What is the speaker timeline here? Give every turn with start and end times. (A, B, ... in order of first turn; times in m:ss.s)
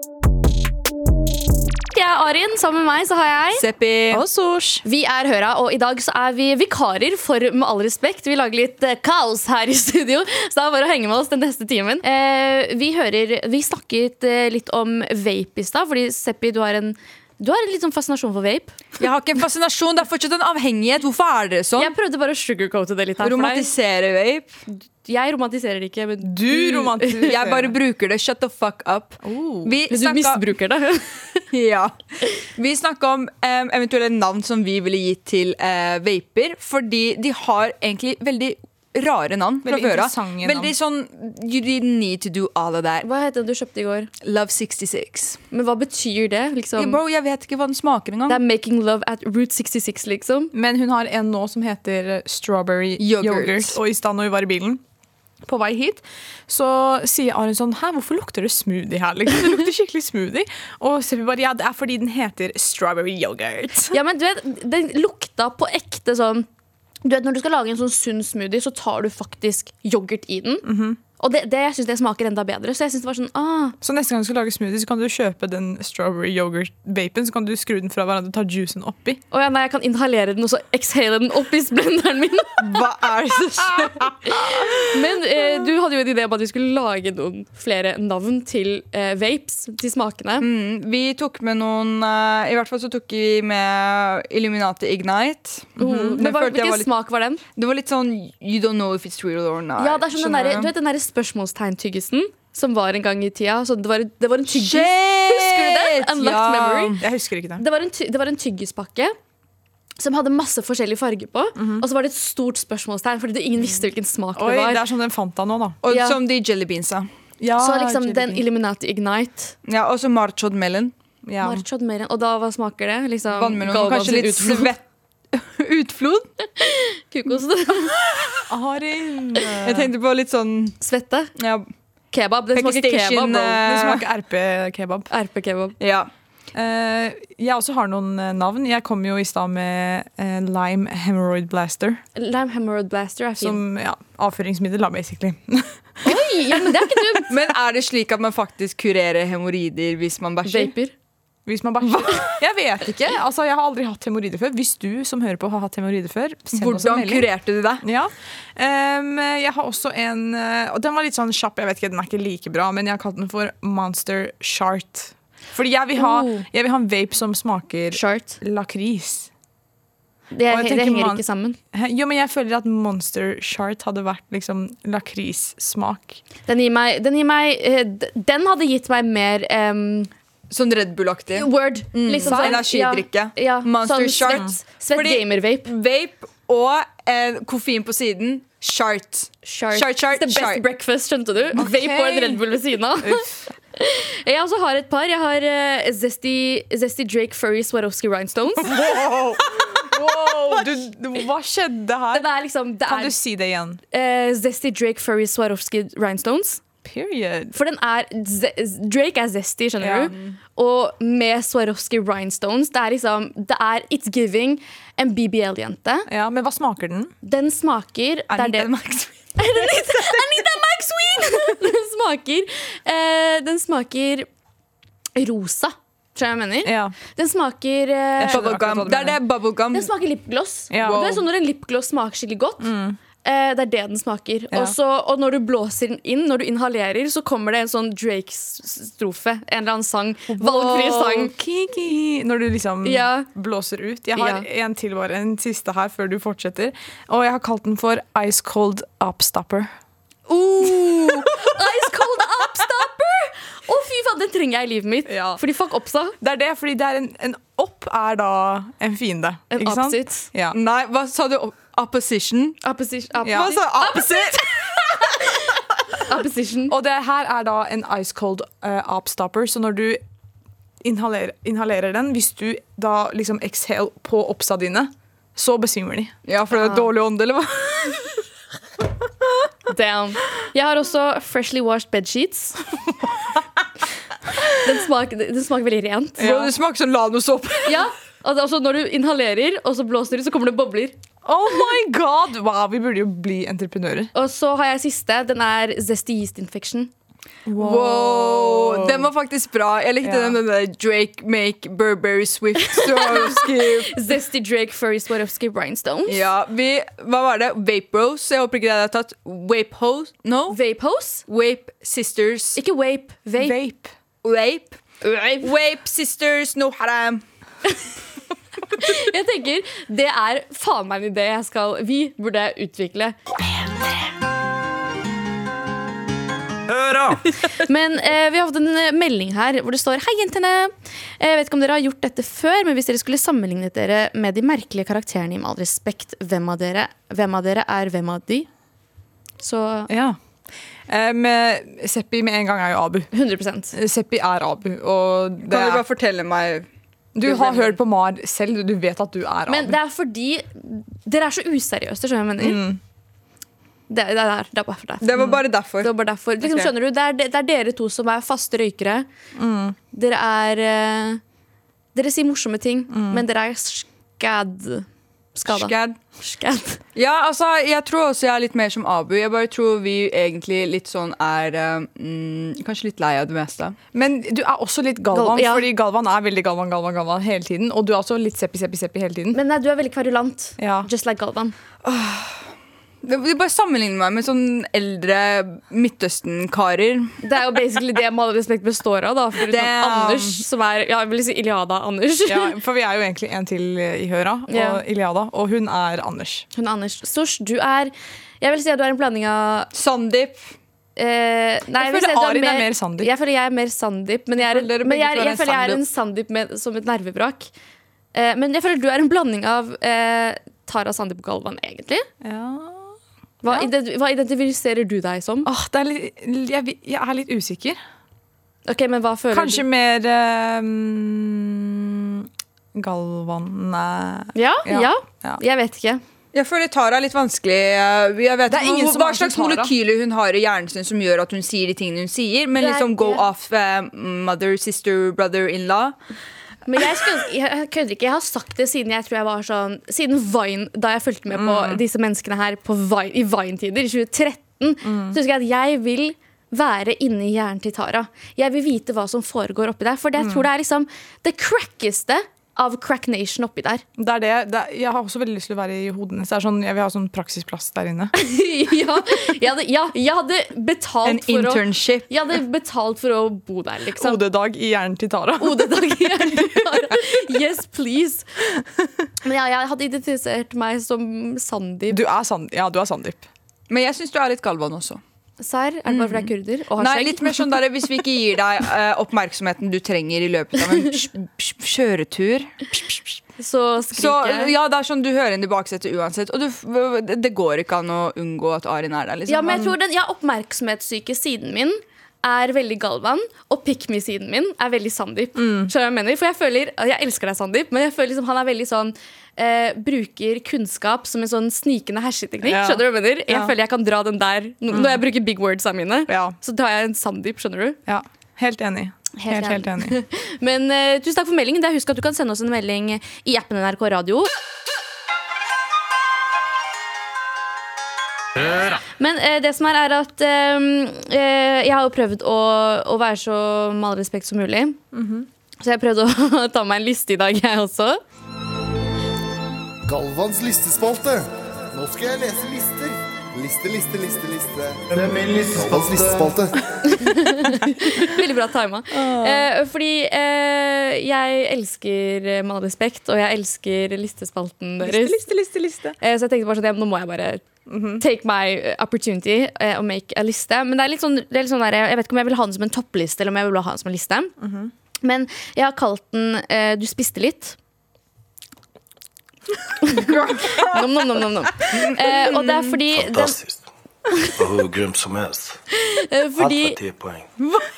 0:01.9-0:03.6 A
0:03.6-0:04.2 B
0:04.1-0:04.8 C
0:04.8-0:18.8 A
0:19.0-0:21.9 B
0:21.8-0:23.7 A
0:23.2-0:24.6 B
0:24.7-0:27.3 A
0:26.2-0:27.8 C
0:27.3-0:30.5 B
0:29.2-0:29.7 C
0:29.9-0:31.4 A
0:31.5-0:43.1 B
0:39.6-0:40.7 C
0:43.0-0:44.1 A
0:44.2-0:45.4 B
0:45.5-0:47.0 A
0:46.8-0:48.4 B
0:48.3-0:50.5 A
0:50.5-0:54.8 C
0:53.0-0:53.8 B
0:55.4-1:04.0 C
1:03.9-1:06.5 A
1:07.0-1:10.7 A
1:10.6-1:11.0 C
1:11.2-1:13.8 A
1:13.8-1:19.2 C
1:19.3-1:22.8 A
1:22.6-1:24.5 B
1:24.3-1:30.5 A
1:30.4-1:36.9 B
1:35.8-1:36.2 C
1:35.8-1:37.4 A
1:37.6-1:40.7 B
1:39.8-1:47.0 A
1:44.5-1:47.0 B
1:47.0-1:47.6 C
1:47.6-1:49.2 A
1:50.0-1:54.8 A
1:51.6-1:51.8 C
1:54.4-1:55.8 C
1:55.8-1:57.1 B
1:55.9-1:56.2 A
1:57.4-1:58.4 C
1:57.6-1:59.6 A
1:59.7-2:00.9 B
2:01.2-2:01.6 C
2:01.4-2:04.7 A
2:03.3-2:06.3 B
2:06.6-2:08.0 A
2:08.1-2:08.4 B
2:08.5-2:09.9 C
2:09.5-2:10.8 B
2:10.8-2:11.3 A
2:11.4-2:11.7 B
2:12.1-2:13.6 A
2:12.5-2:14.0 B
2:13.6-2:15.1 C
2:15.1-2:15.8 A
2:15.8-2:16.1 B
2:16.5-2:22.0 C
2:22.2-2:23.6 A
2:23.4-2:27.2 C
2:26.0-2:27.3 A
2:27.3-2:30.7 B
2:30.4-2:30.9 A
2:31.5-2:37.3 C
2:36.5-2:37.8 B
2:37.8-2:49.3 C
2:46.0-2:46.5 A
2:47.9-2:48.4 A
2:50.3-2:51.6 A
2:50.5-2:51.2 C
2:51.7-2:56.2 C
2:56.5-3:00.1 A
3:00.5-3:10.6 B
3:01.3-3:05.7 A
3:02.3-3:02.6 C
3:09.4-3:18.8 A
3:11.6-3:13.4 C
3:18.6-3:22.3 C
3:22.1-3:23.2 A
3:22.9-3:23.8 C
3:23.9-3:26.6 A
3:26.8-3:27.5 C
3:27.5-3:36.1 A
3:29.8-3:30.1 C
3:30.1-3:30.4 B
3:36.1-3:37.1 C
3:37.2-3:38.7 A
3:38.4-3:38.7 C
3:38.5-3:39.1 B
3:39.4-3:44.3 A
3:45.2-3:48.6 A
3:46.6-3:47.0 C
3:48.2-3:49.2 C
3:48.3-3:49.9 B
3:49.7-3:52.7 A
3:50.7-3:51.2 C
3:50.8-3:51.2 B
3:52.6-3:53.0 C
3:53.2-4:01.3 A
4:00.3-4:09.7 C
4:02.8-4:03.3 A
4:04.2-4:04.5 A
4:10.3-4:16.2 A
4:15.1-4:15.4 C
4:16.2-4:20.6 C
4:19.5-4:20.3 A
4:20.5-4:22.6 B
4:22.6-4:25.5 A
4:23.2-4:23.6 C
4:23.3-4:24.4 B
4:26.0-4:26.8 A
4:26.7-4:30.0 C
4:30.8-4:36.2 C
4:36.3-4:38.1 B
4:39.7-4:42.6 A
4:44.5-4:46.5 A
4:46.2-4:47.8 B
4:47.6-4:51.0 A
4:51.2-4:54.1 C
4:54.1-4:56.9 A
4:57.5-4:59.1 C
4:57.6-5:03.9 B
5:00.0-5:00.4 C
5:02.6-5:06.3 A
5:03.3-5:03.8 C
5:06.1-5:10.6 B
5:10.5-5:11.2 A
5:11.3-5:12.6 B
5:12.6-5:13.6 A
5:13.4-5:13.9 C
5:14.2-5:14.8 B
5:15.0-5:15.5 A
5:15.4-5:17.2 B
5:18.7-5:23.2 A
5:27.5-5:38.5 A
5:39.4-5:39.9 A
5:39.9-5:40.2 C
5:40.9-5:43.1 C
5:43.1-5:43.8 A
5:43.7-5:45.8 C
5:45.5-5:46.7 B
5:47.2-5:49.8 C
5:47.2-5:47.8 B
5:49.5-5:52.6 A
5:52.4-5:52.8 C
5:53.9-5:59.1 A
5:55.0-5:56.7 B
5:59.4-5:59.8 C
5:59.9-6:01.2 A
6:02.0-6:06.8 A
6:02.9-6:03.2 C
6:05.5-6:06.0 B
6:07.0-6:13.8 B
6:13.9-6:19.4 C
6:15.1-6:15.7 A
6:19.3-6:21.6 A
6:20.6-6:20.9 C
6:21.8-6:22.5 B
6:23.0-6:27.2 B
6:27.2-6:32.5 A
6:29.4-6:30.4 B
6:32.3-6:36.5 C
6:34.5-6:34.8 A
6:36.5-6:39.7 A
6:39.7-6:40.5 B
6:41.0-6:47.5 A
6:41.8-6:43.1 C
6:44.4-6:45.8 B
6:48.1-6:52.1 A
6:52.2-6:53.0 C
6:53.4-6:55.5 A
6:55.4-6:57.8 C
6:58.7-6:59.6 A
6:59.3-7:05.4 C
7:04.4-7:06.0 A
7:06.3-7:16.0 B
7:08.5-7:09.7 C
7:12.6-7:13.3 A
7:16.7-7:33.8 A
7:21.3-7:21.8 C
7:24.8-7:25.2 C
7:30.2-7:30.5 C
7:34.0-7:38.1 C
7:38.1-7:44.2 A
7:41.0-7:42.1 B
7:44.0-7:46.9 C
7:45.4-7:48.3 A
7:49.2-7:52.0 A
7:51.9-7:53.2 C
7:53.7-7:55.0 B
7:55.4-7:57.4 A
7:55.9-8:03.2 B
8:03.4-8:04.5 A
8:03.9-8:09.7 B
8:09.3-8:27.8 A
8:15.4-8:15.7 C
8:22.4-8:23.5 C
8:24.7-8:25.0 C
8:26.1-8:26.4 C
8:27.9-8:30.0 C
8:29.2-8:34.3 A
8:39.0-8:44.8 A
8:44.9-8:45.3 C
8:45.6-8:48.0 A
8:49.9-8:56.6 D
8:56.9-9:05.3 A
8:57.4-8:58.1 C
8:58.9-8:59.5 C
9:04.8-9:06.0 C
9:06.0-9:07.4 A
9:07.7-9:08.0 C
9:08.0-9:14.3 A
9:14.4-9:14.7 C
9:15.0-9:17.6 A
9:19.8-9:23.4 A
9:20.0-9:20.8 B
9:21.7-9:22.7 B
9:22.9-9:23.7 E
9:24.4-9:25.6 E
9:25.8-9:26.8 A
9:26.4-9:27.3 E